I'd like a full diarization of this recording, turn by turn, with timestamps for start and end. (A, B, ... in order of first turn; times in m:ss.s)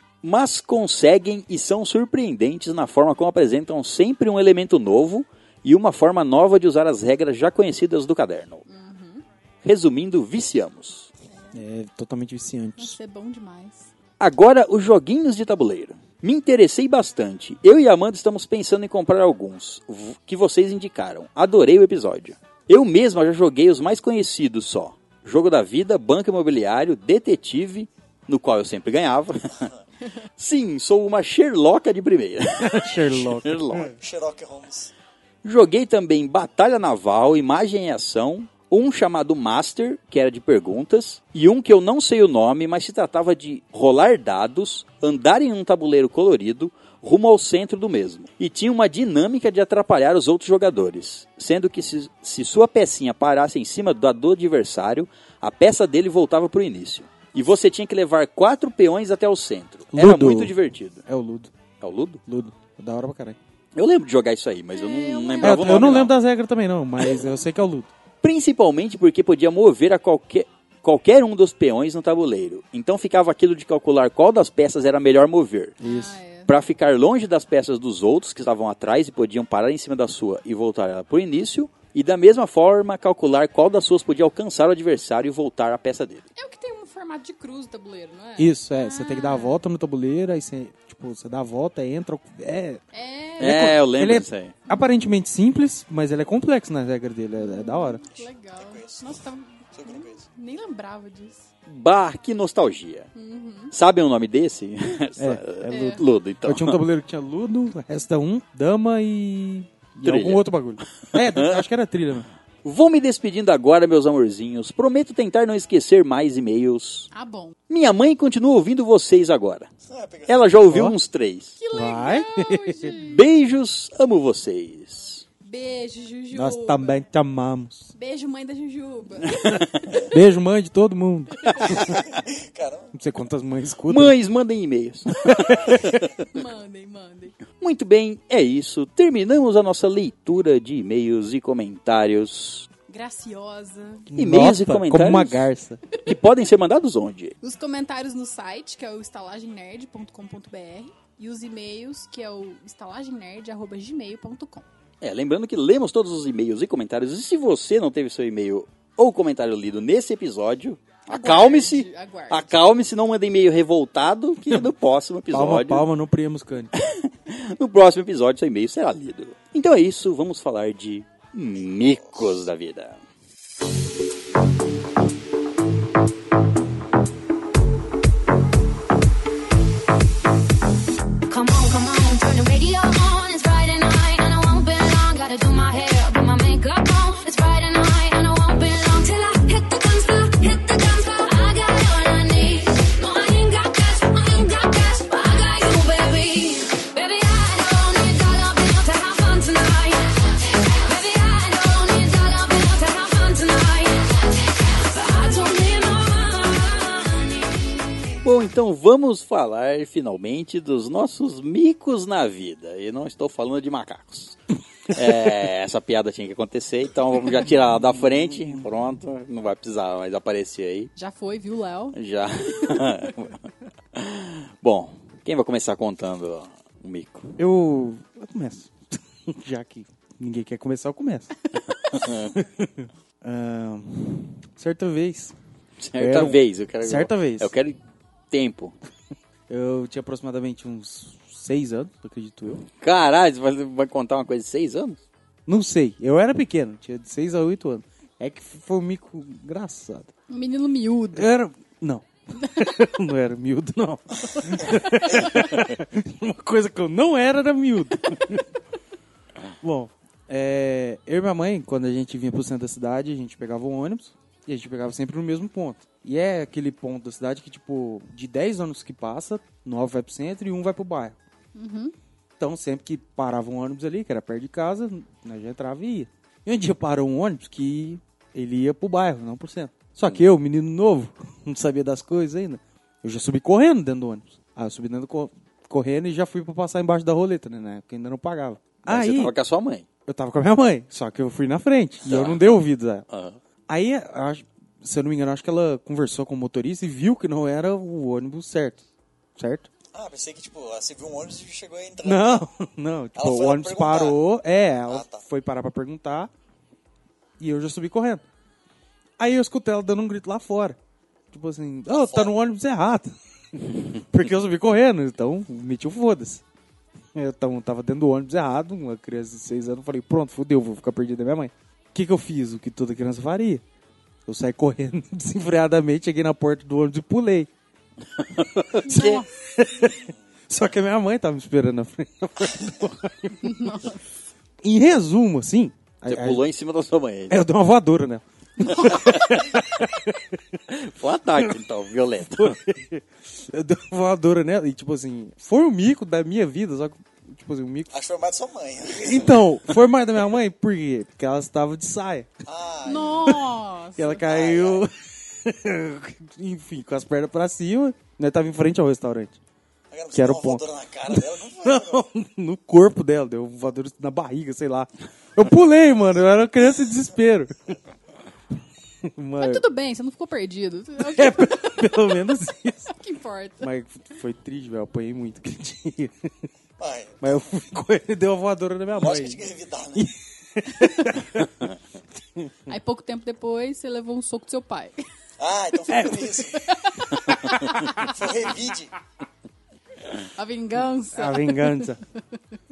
0:00.2-0:08.6 A
0:08.7-0:09.2 B
0:09.6-0:11.1 A
0:11.3-0:11.6 B
0:11.6-0:13.0 C
0:12.8-0:13.9 B
0:14.2-0:29.7 A
0:30.4-0:33.9 A
0:32.6-0:33.9 C
0:33.9-0:34.9 D
0:35.4-1:01.0 A
0:59.9-1:00.5 C
1:01.1-1:01.5 C
1:01.8-1:02.2 A
1:02.3-1:03.4 C
1:03.8-1:06.1 A
1:04.7-1:06.1 B
1:05.4-1:07.9 C
1:08.2-1:15.8 A
1:15.8-1:16.2 C
1:15.8-1:16.5 B
1:16.5-1:26.2 A
1:26.4-1:29.6 B
1:28.4-1:32.8 C
1:32.9-1:33.7 B
1:33.4-1:38.0 C
1:33.4-1:34.6 A
1:37.4-1:41.5 B
1:38.1-1:39.2 D
1:39.7-1:40.2 D
1:41.7-1:43.1 A
1:43.2-1:43.7 B
1:43.7-1:46.8 A
1:45.2-1:52.3 C
1:45.7-1:46.0 B
1:50.0-1:51.7 A
1:52.6-1:57.1 A
1:57.1-1:57.6 B
1:57.7-1:59.7 A
1:59.9-2:00.5 D
2:00.3-2:01.6 A
2:00.7-2:01.0 C
2:01.6-2:03.2 B
2:01.7-2:03.0 C
2:03.0-2:05.2 A
2:05.4-2:07.0 B
2:06.3-2:07.9 C
2:07.9-2:10.2 B
2:10.0-2:12.0 C
2:11.8-2:12.9 D
2:12.9-2:14.2 C
2:13.9-2:16.0 A
2:15.2-2:15.9 C
2:16.3-2:17.4 B
2:17.6-2:22.7 A
2:22.9-2:24.1 B
2:24.1-2:25.8 C
2:24.2-2:25.5 A
2:26.0-2:27.4 A
2:27.4-2:34.7 B
2:35.0-2:45.9 A
2:41.1-2:42.6 B
2:45.3-2:46.7 C
2:46.8-2:53.0 A
2:51.6-2:52.2 D
3:01.3-3:27.8 E
3:28.2-3:34.4 A
3:34.9-3:40.9 A
3:41.0-3:42.0 B
3:41.9-3:47.4 A
3:42.5-3:42.9 B
3:47.4-3:51.3 C
3:51.9-3:52.4 A
3:52.4-3:55.4 C
3:55.8-3:57.8 A
3:56.0-3:57.5 C
3:58.3-3:58.8 A
3:59.5-4:02.6 C
4:02.8-4:05.0 A
4:05.5-4:10.1 C
4:10.3-4:11.3 B
4:11.2-4:18.4 C
4:14.7-4:15.5 B
4:19.6-4:31.2 C
4:31.6-4:31.9 B
4:32.4-4:49.3 C
4:48.9-4:49.9 A
4:50.1-4:53.0 C
4:52.0-4:53.4 A
4:53.7-4:58.8 C
4:59.4-4:59.7 C
4:59.9-5:02.5 D
5:02.0-5:06.3 C
5:03.2-5:04.2 D
5:04.9-5:05.2 D
5:07.4-5:08.2 C
5:09.2-5:10.8 C
5:11.3-5:16.4 C
5:11.9-5:12.3 D
5:17.2-5:23.6 C
5:24.3-5:27.5 C
5:28.2-5:29.2 A
5:28.8-5:29.3 B
5:29.0-5:33.8 C
5:33.4-5:34.0 B
5:34.6-5:36.4 C
5:36.1-5:37.5 A
5:37.3-5:40.3 C
5:38.6-5:39.2 B
5:40.7-5:42.6 A
5:42.3-5:47.9 C
5:47.9-5:49.3 D
5:49.0-5:52.3 C
5:52.5-5:53.4 D
5:52.8-5:54.2 B
5:54.0-5:59.4 C
5:54.2-5:54.8 D
5:59.9-6:02.0 D
6:00.1-6:07.8 C
6:09.2-6:09.6 C
6:09.4-6:12.2 B
6:11.0-6:12.9 C
6:12.9-6:13.7 B
6:13.6-6:16.3 C
6:16.8-6:17.4 D
6:17.2-6:19.4 C
6:18.9-6:20.1 D
6:20.0-6:21.5 C
6:20.8-6:21.1 B
6:22.7-6:25.0 B
6:25.4-6:26.6 D
6:25.9-6:26.5 C
6:26.5-6:28.1 B
6:27.8-6:28.9 D
6:30.2-6:32.0 B
6:31.2-6:32.0 C